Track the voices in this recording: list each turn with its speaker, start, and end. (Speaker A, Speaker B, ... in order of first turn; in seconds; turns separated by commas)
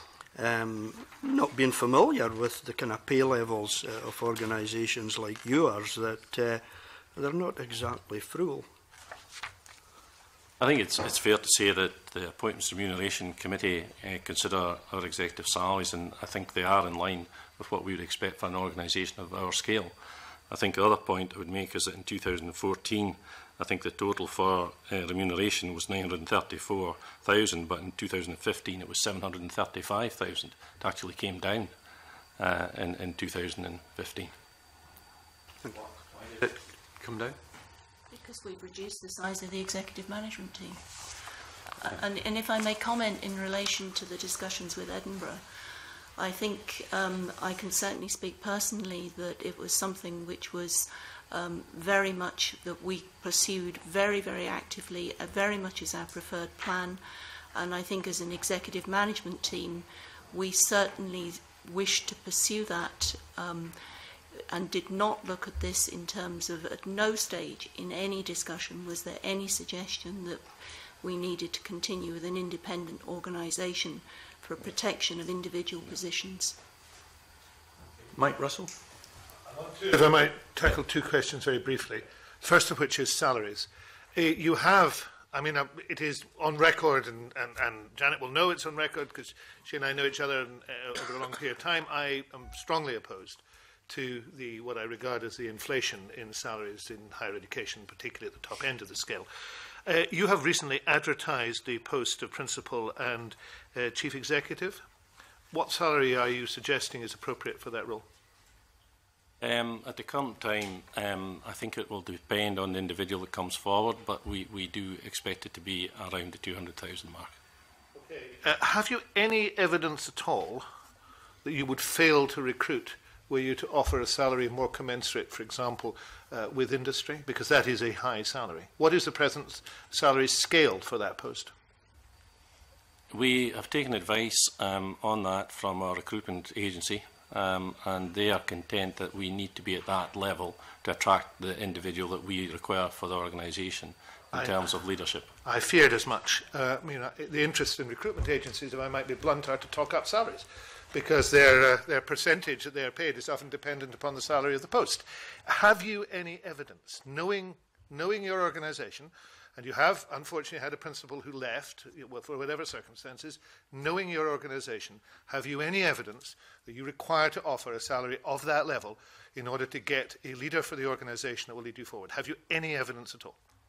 Speaker A: 0.3-6.6, Speaker A: 7.2-8.7, Speaker B: 10.6-20.0, Speaker B: 20.5-31.8, Speaker B: 32.4-34.3, Speaker C: 35.7-37.4, Speaker D: 38.1-40.8, Speaker D: 41.8-45.4, Speaker D: 46.2-57.0, Speaker D: 57.5-63.8, Speaker D: 64.5-70.4, Speaker D: 71.0-76.6, Speaker C: 78.1-78.7, Speaker E: 79.5-99.3, Speaker E: 99.9-104.8, Speaker E: 105.5-108.0, Speaker B: 109.4-117.3, Speaker E: 118.0-120.7, Speaker E: 121.4-131.5, Speaker B: 133.1-145.3, Speaker E: 144.3-144.6, Speaker E: 145.4-173.4